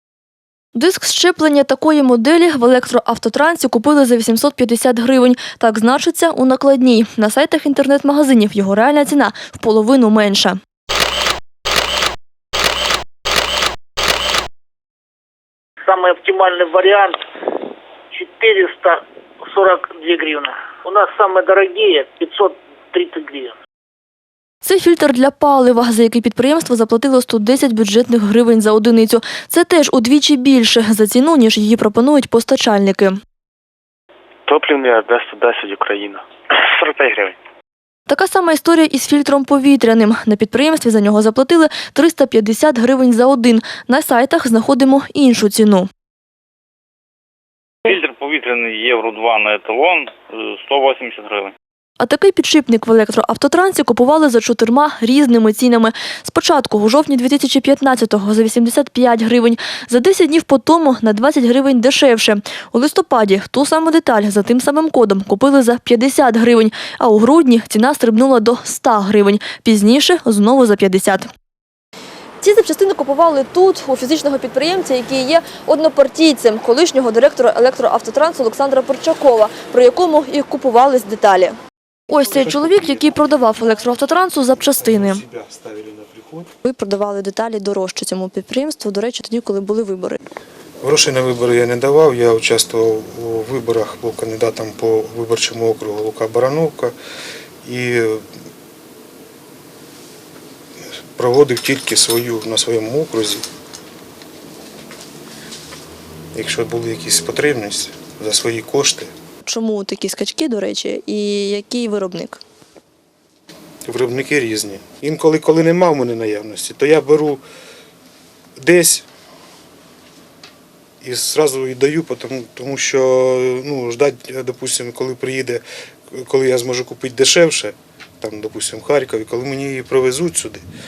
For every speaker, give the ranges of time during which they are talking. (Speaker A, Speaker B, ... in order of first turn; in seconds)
Speaker A: 0.7-10.6, 24.6-33.1, 38.1-45.9, 52.0-71.3, 72.4-81.6, 82.1-85.2, 86.7-90.2, 109.5-112.4
Speaker B: 15.9-17.2, 18.1-23.6
Speaker C: 34.5-37.4
Speaker D: 47.9-51.5
Speaker E: 82.2-86.5, 90.8-97.0, 97.7-98.2, 101.2-103.4, 106.3-109.1, 113.8-117.4, 118.6-119.1, 121.0-130.6